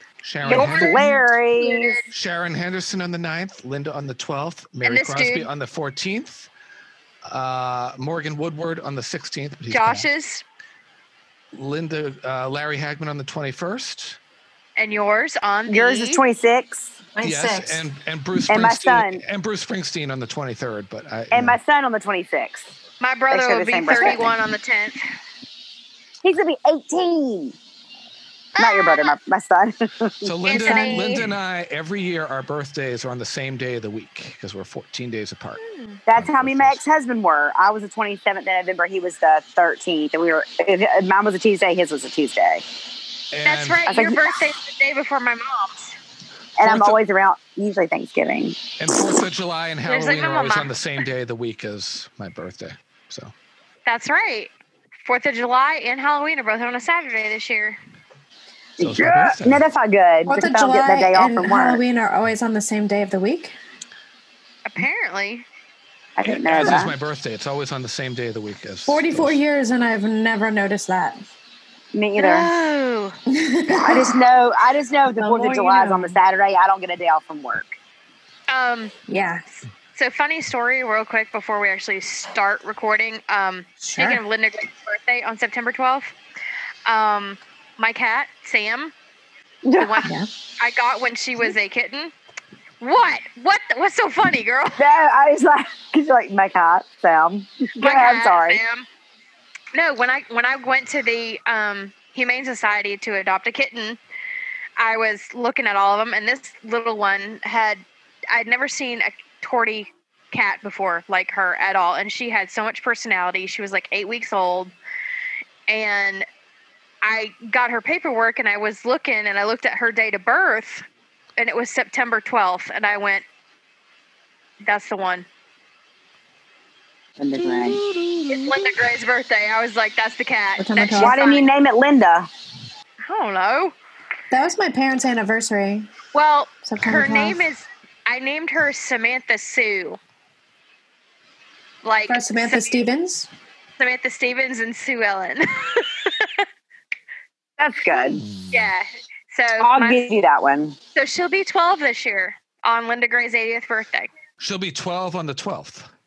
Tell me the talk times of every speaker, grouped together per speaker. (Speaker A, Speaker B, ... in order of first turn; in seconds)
Speaker A: 0.2-1.0, 2.1-6.5, 7.2-10.1, 11.5-14.2, 17.2-21.6, 30.2-35.6, 36.1-36.8, 43.3-43.8, 46.6-47.0, 48.8-53.3, 58.8-59.6, 66.2-69.4, 148.2-148.7, 154.4-155.9
Speaker B: 0.5-2.0, 15.7-16.9, 18.5-19.2, 21.3-22.7, 23.3-24.3, 26.2-27.6, 28.6-30.9, 36.1-42.6, 43.9-44.2, 46.6-48.6, 58.8-61.8, 66.2-66.9, 71.9-72.5, 73.7-77.7, 89.6-90.1, 94.8-98.6, 127.2-127.8, 131.0-132.3, 147.6-148.2, 149.6-150.8
Speaker C: 0.5-2.0, 4.8-5.5, 9.7-10.4, 14.8-16.2, 23.0-25.0, 28.6-29.1, 30.4-31.2, 35.6-36.0, 43.4-45.9, 49.9-50.7, 53.9-54.5, 55.0-57.8, 64.7-65.4, 72.2-73.2, 78.5-78.9, 79.9-86.1, 86.8-88.9, 89.8-92.1, 92.8-94.8, 97.8-98.9, 99.7-104.0, 104.8-114.7, 115.7-116.2, 117.0-120.8, 121.4-123.2, 124.6-125.3, 128.3-131.5, 133.0-133.7, 136.1-140.0, 141.8-142.8, 143.8-146.4, 148.5-150.0, 150.9-154.1
Speaker D: 17.1-17.8, 60.3-63.5, 68.9-71.2, 73.3-74.2, 75.2-76.2, 79.1-79.4, 83.8-84.2, 130.6-131.2, 134.3-135.9, 136.6-137.4, 142.1-143.3